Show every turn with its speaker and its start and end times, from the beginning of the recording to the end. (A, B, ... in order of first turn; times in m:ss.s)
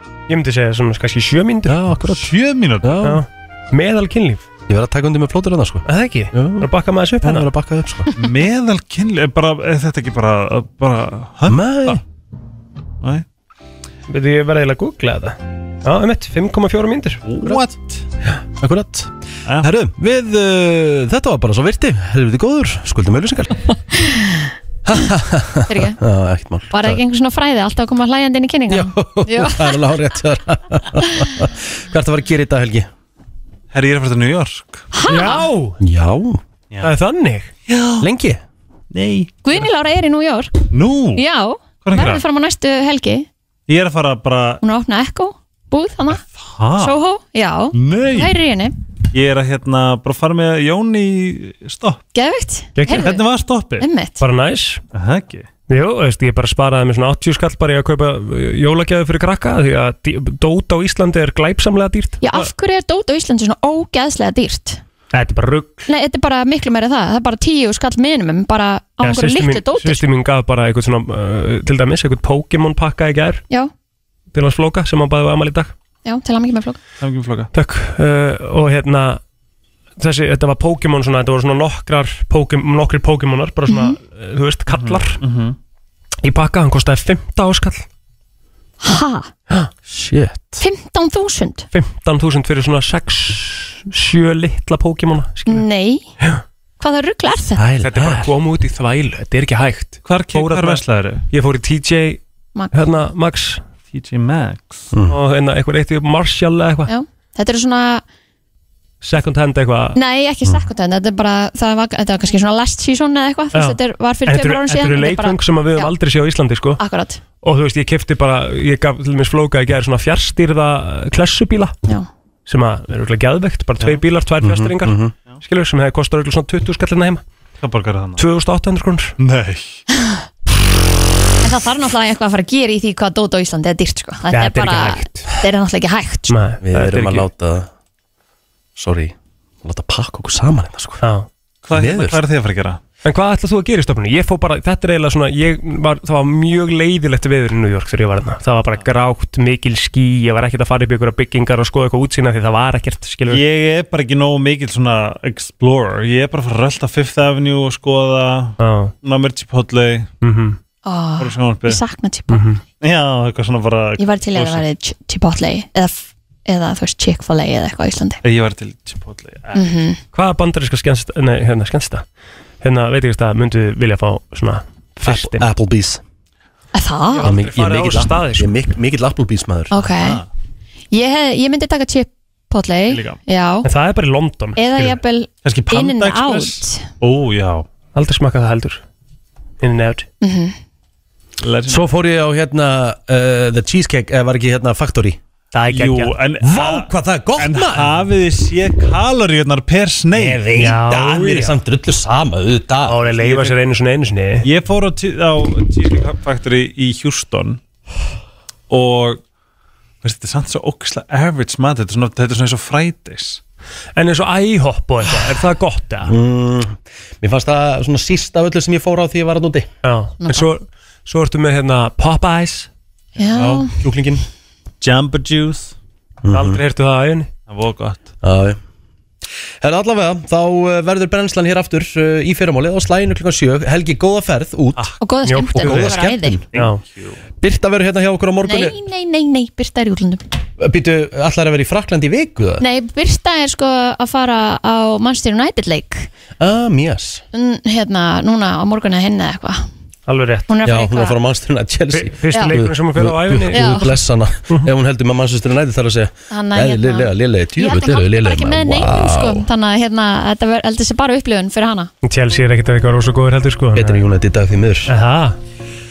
0:00.3-0:01.8 A
0:01.6-0:03.2 B
0:02.1-0:03.1 C
0:03.0-0:04.4 A
0:04.7-0:06.7 B
0:05.8-0:07.5 A
0:07.2-0:08.1 B
0:08.1-0:12.0 C
0:11.5-0:12.0 B
0:14.1-0:17.2 A
0:17.2-0:18.0 C
0:18.6-0:23.7 B
0:19.4-0:19.7 C
0:24.0-0:24.5 D
0:24.8-0:27.0 B
0:25.7-0:26.0 D
0:26.7-0:29.8 D
0:28.7-0:32.9 B
0:33.7-0:34.9 C
0:34.9-0:35.5 D
0:35.1-0:35.8 A
0:35.8-0:36.4 B
0:36.8-0:37.5 A
0:37.7-0:38.1 C
0:38.0-0:38.4 B
0:38.9-0:39.6 C
0:39.4-0:43.3 D
0:40.7-0:41.2 C
0:41.8-0:42.2 C
0:43.7-0:44.6 C
0:44.6-0:46.2 D
0:46.3-0:47.0 C
0:46.8-0:48.8 D
0:47.7-0:48.3 C
0:49.1-0:52.0 C
0:52.1-0:53.2 D
0:52.8-0:53.1 A
0:52.9-0:53.9 C
0:53.8-0:54.2 D
0:54.2-0:54.8 A
0:54.9-0:55.5 C
0:55.7-1:02.2 A
1:02.2-1:04.8 D
1:05.1-1:05.9 A
1:05.8-1:10.0 D
1:09.0-1:13.4 A
1:14.3-1:15.7 A
1:16.0-1:16.8 D
1:17.0-1:17.5 C
1:17.5-1:19.2 A
1:20.0-1:25.2 A
1:23.7-1:24.0 D
1:24.7-1:25.6 C
1:26.2-1:27.8 A
1:28.8-1:29.3 D
1:29.9-1:30.6 B
1:30.6-1:31.7 D
1:31.7-1:35.6 A
1:35.4-1:36.1 D
1:36.8-1:37.6 D
1:37.6-1:38.3 B
1:37.8-1:42.2 A
1:40.0-1:41.2 C
1:42.5-1:42.8 D
1:42.7-1:43.6 A
1:43.9-1:44.9 C
1:44.9-1:45.2 B
1:45.1-1:46.9 A
1:46.9-1:48.0 D
1:49.0-1:50.0 A
1:49.9-1:55.9 D
1:53.5-1:56.8 A
1:56.8-1:57.2 D
1:57.4-2:01.8 A
2:02.4-2:07.2 A
2:04.4-2:05.1 B
2:07.6-2:08.2 C
2:08.2-2:09.2 A
2:09.2-2:09.8 C
2:11.4-2:16.3 D
2:14.3-2:15.4 A
2:16.3-2:17.2 A
2:16.6-2:17.7 B
2:18.8-2:21.0 B
2:21.0-2:21.3 A
2:21.6-2:22.8 C
2:21.7-2:22.2 B
2:23.0-2:33.4 A
2:33.3-2:40.1 C
2:38.6-2:38.9 A
2:40.2-2:40.6 A
2:40.8-2:42.4 D
2:41.2-2:41.8 C
2:42.3-2:42.6 A
2:42.8-2:44.6 C
2:44.0-2:48.2 D
2:48.2-2:49.7 C
2:49.5-2:50.0 D
2:50.1-2:52.0 A
2:52.6-2:55.5 A
2:55.0-2:56.0 B
2:56.7-2:57.3 D
2:57.1-2:58.5 A
2:57.2-2:59.7 B
2:59.7-3:00.2 D
2:59.9-3:00.3 C
3:00.9-3:03.7 D
3:02.9-3:03.2 C
3:03.6-3:05.0 A
3:04.6-3:06.9 D
3:05.4-3:07.6 C
3:07.9-3:08.8 A
3:09.6-3:10.1 A
3:10.2-3:10.6 D
3:11.4-3:11.9 C
3:11.7-3:15.2 B
3:15.5-3:16.1 A
3:15.7-3:20.6 C
3:16.4-3:17.9 B
3:20.1-3:23.1 B
3:20.5-3:21.6 A
3:22.9-3:24.5 A
3:23.2-3:23.5 C
3:24.4-3:27.6 C
3:28.7-3:29.2 C
3:30.0-3:33.4 C
3:34.0-3:36.1 A
3:36.1-3:39.7 B
3:39.8-3:42.7 A
3:43.2-3:43.8 D
3:43.3-3:44.2 B
3:44.8-3:45.7 C
3:46.2-3:46.6 B
3:46.3-3:47.3 A
3:47.5-3:48.1 C
3:48.2-3:48.6 B
3:49.6-3:54.9 B
3:55.0-3:56.4 D
3:55.2-3:56.0 A
3:55.6-3:56.4 B
3:56.5-3:57.2 C
3:56.5-3:56.8 A
3:57.4-3:58.8 B
3:58.4-4:00.2 D
4:00.6-4:02.6 B
4:02.6-4:06.1 D
4:06.4-4:07.2 B
4:07.3-4:09.7 D
4:10.1-4:10.5 A
4:10.5-4:11.2 D
4:10.6-4:19.4 B
4:11.9-4:14.0 A
4:12.3-4:12.6 D
4:13.5-4:13.9 D
4:16.3-4:21.9 D
4:22.0-4:24.1 A
4:23.7-4:24.9 B
4:24.9-4:25.4 A